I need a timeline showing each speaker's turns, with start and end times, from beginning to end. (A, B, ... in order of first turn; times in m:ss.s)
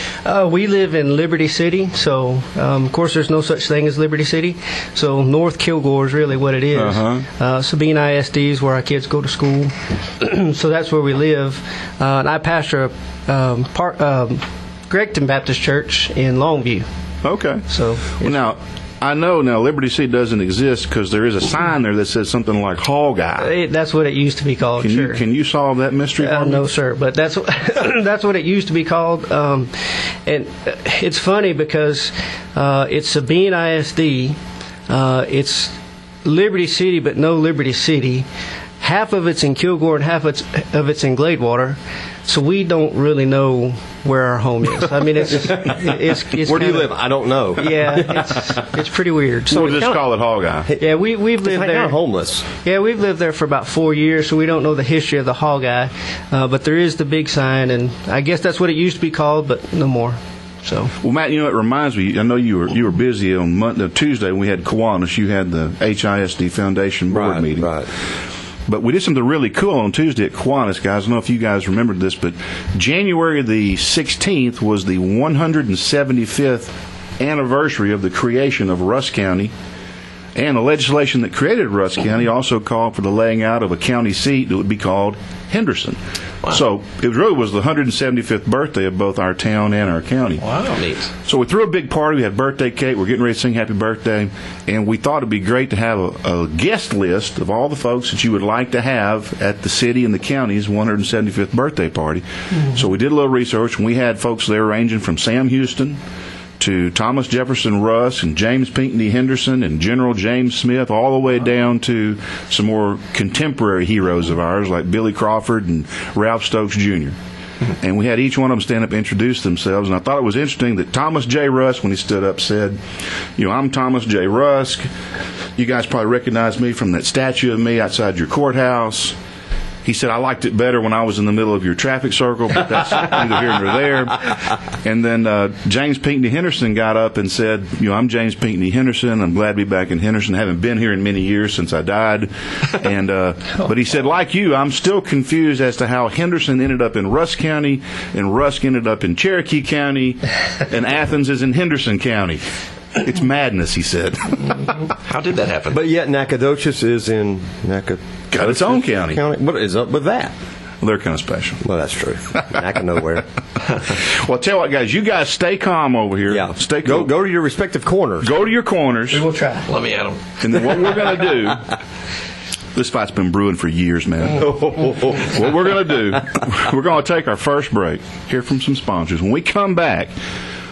0:00.2-0:16.9 A
0:06.7-0:07.2 B
0:17.2-0:17.6 B
0:17.7-0:18.4 A
0:18.2-0:23.5 B
0:23.4-0:25.2 A
0:24.8-0:26.6 B
0:26.2-0:29.7 A
0:30.2-0:34.4 A
0:34.9-0:35.7 A
0:36.2-0:38.3 A
0:38.8-0:47.0 A
0:45.3-0:48.6 C
0:47.5-0:50.0 A
0:49.5-0:50.7 B
0:49.6-0:50.0 C
0:50.6-0:52.4 C
0:50.8-0:52.0 A
0:52.5-1:00.9 A
1:01.0-1:07.8 B
1:07.1-1:07.9 C
1:08.7-1:19.5 B
1:20.3-1:30.4 B
1:30.4-1:31.1 D
1:31.2-1:46.0 B
1:46.6-1:57.2 B
1:57.8-2:02.8 B
2:03.4-2:04.9 B
2:05.6-2:09.2 B
2:09.8-2:32.4 B
2:32.9-2:34.9 B
2:35.0-2:35.8 D
2:35.7-2:40.3 C
2:38.3-2:39.2 B
2:40.8-2:41.6 B
2:41.6-2:43.2 C
2:43.9-2:47.1 B
2:46.3-2:48.3 C
2:48.2-2:49.2 B
2:49.1-2:49.7 A
2:49.7-2:50.8 D
2:50.4-2:51.7 B
2:52.7-3:00.1 B
2:54.3-2:55.5 C